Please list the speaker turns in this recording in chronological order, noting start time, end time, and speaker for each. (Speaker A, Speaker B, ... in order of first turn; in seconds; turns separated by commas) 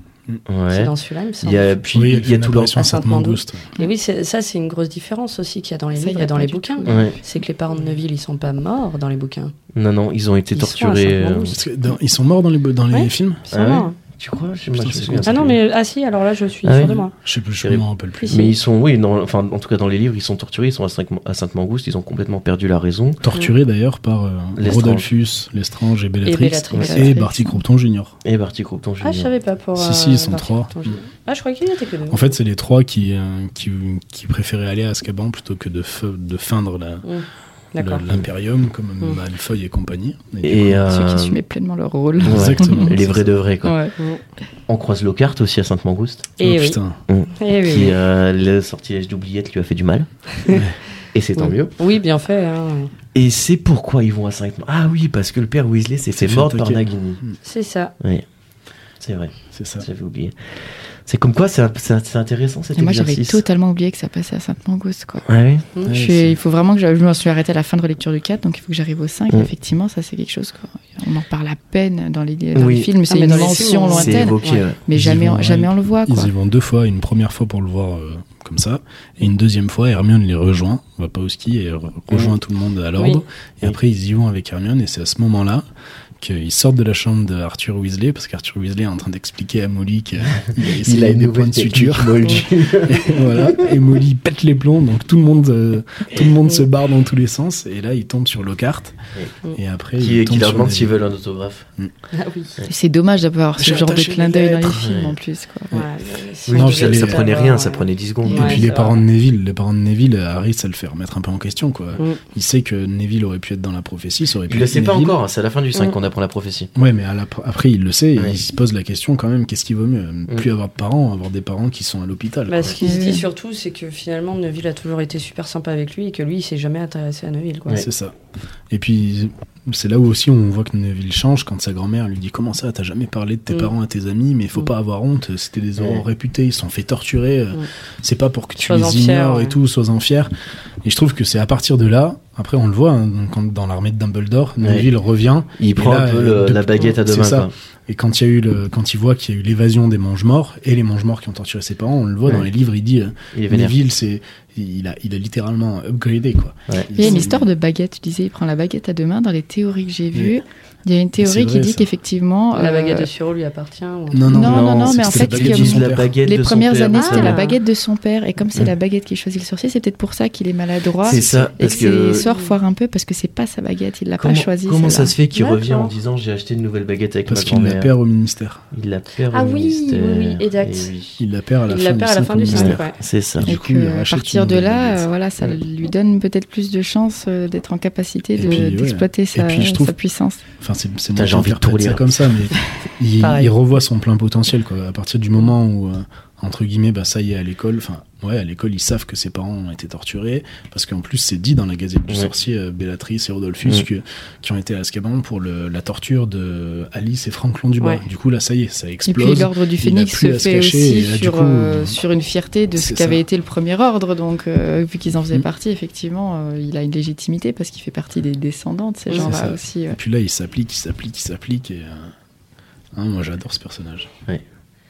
Speaker A: 0.5-2.8, Speaker B: 0.7-1.8, Speaker C: 1.9-3.6, Speaker B: 2.8-9.5, Speaker D: 6.0-7.2, Speaker A: 6.8-7.2, Speaker A: 9.7-11.6, Speaker B: 10.5-11.6, Speaker C: 11.5-13.4, Speaker B: 12.9-13.9, Speaker A: 13.5-15.5, Speaker C: 14.8-15.6, Speaker B: 15.2-17.1, Speaker A: 16.6-17.0, Speaker C: 16.9-18.4, Speaker A: 17.6-23.2, Speaker B: 18.2-18.5, Speaker C: 23.2-28.1, Speaker A: 24.6-25.1, Speaker B: 26.2-27.2, Speaker D: 26.8-27.6, Speaker A: 28.2-29.3, Speaker B: 29.0-32.3, Speaker C: 29.8-31.0, Speaker C: 32.1-37.0, Speaker B: 37.0-38.0, Speaker C: 37.8-40.8, Speaker A: 40.4-41.4, Speaker D: 40.9-43.0, Speaker C: 42.2-43.3, Speaker A: 42.2-43.8, Speaker D: 43.6-43.9, Speaker B: 44.0-44.2, Speaker A: 44.7-46.3, Speaker B: 46.4-46.8, Speaker C: 46.4-47.0, Speaker A: 47.1-50.1, Speaker B: 47.4-48.0, Speaker C: 50.5-50.8, Speaker A: 51.1-51.7, Speaker B: 51.4-52.9, Speaker A: 53.1-57.2, Speaker C: 56.1-57.4, Speaker B: 57.4-57.9, Speaker A: 58.0-58.2, Speaker A: 59.0-63.4, Speaker C: 59.5-59.9, Speaker D: 62.8-65.2, Speaker A: 65.2-65.7, Speaker C: 65.8-66.4, Speaker D: 65.9-76.3, Speaker A: 72.5-74.8, Speaker B: 73.0-74.6, Speaker C: 74.9-85.6, Speaker B: 83.0-83.2, Speaker C: 86.2-99.0, Speaker A: 90.6-93.6, Speaker C: 99.5-100.9, Speaker A: 100.0-101.7, Speaker B: 102.1-102.5, Speaker D: 102.7-105.7, Speaker C: 103.6-104.2, Speaker A: 103.7-105.2, Speaker B: 105.7-109.0, Speaker A: 106.5-108.7, Speaker C: 106.5-107.2, Speaker D: 108.2-108.6, Speaker C: 108.3-115.2, Speaker A: 114.5-116.7, Speaker C: 116.7-122.8, Speaker B: 122.5-127.8, Speaker D: 122.8-123.2, Speaker C: 127.7-128.1, Speaker C: 128.7-140.3, Speaker A: 135.8-136.0, Speaker B: 138.6-139.6, Speaker C: 140.8-157.5, Speaker A: 144.6-144.9, Speaker A: 145.6-147.5, Speaker A: 153.3-153.8, Speaker D: 156.9-163.1, Speaker C: 160.1-160.4, Speaker C: 161.2-161.9, Speaker B: 162.5-164.4, Speaker C: 164.1-166.1, Speaker D: 164.2-175.2, Speaker A: 164.3-167.4, Speaker B: 166.9-167.6, Speaker A: 171.0-172.3, Speaker B: 171.2-172.5, Speaker A: 174.2-177.9, Speaker B: 175.3-175.9, Speaker C: 177.3-178.6, Speaker A: 178.7-181.2, Speaker B: 179.3-180.9, Speaker C: 181.2-182.8, Speaker B: 181.7-183.0, Speaker A: 182.5-183.5, Speaker C: 183.4-185.6, Speaker D: 183.4-190.4, Speaker C: 188.4-189.9, Speaker C: 190.6-212.0, Speaker A: 191.1-192.1, Speaker B: 193.2-193.5, Speaker D: 209.1-220.0, Speaker C: 212.7-213.2, Speaker B: 219.1-219.3, Speaker C: 219.1-222.1, Speaker C: 222.9-224.1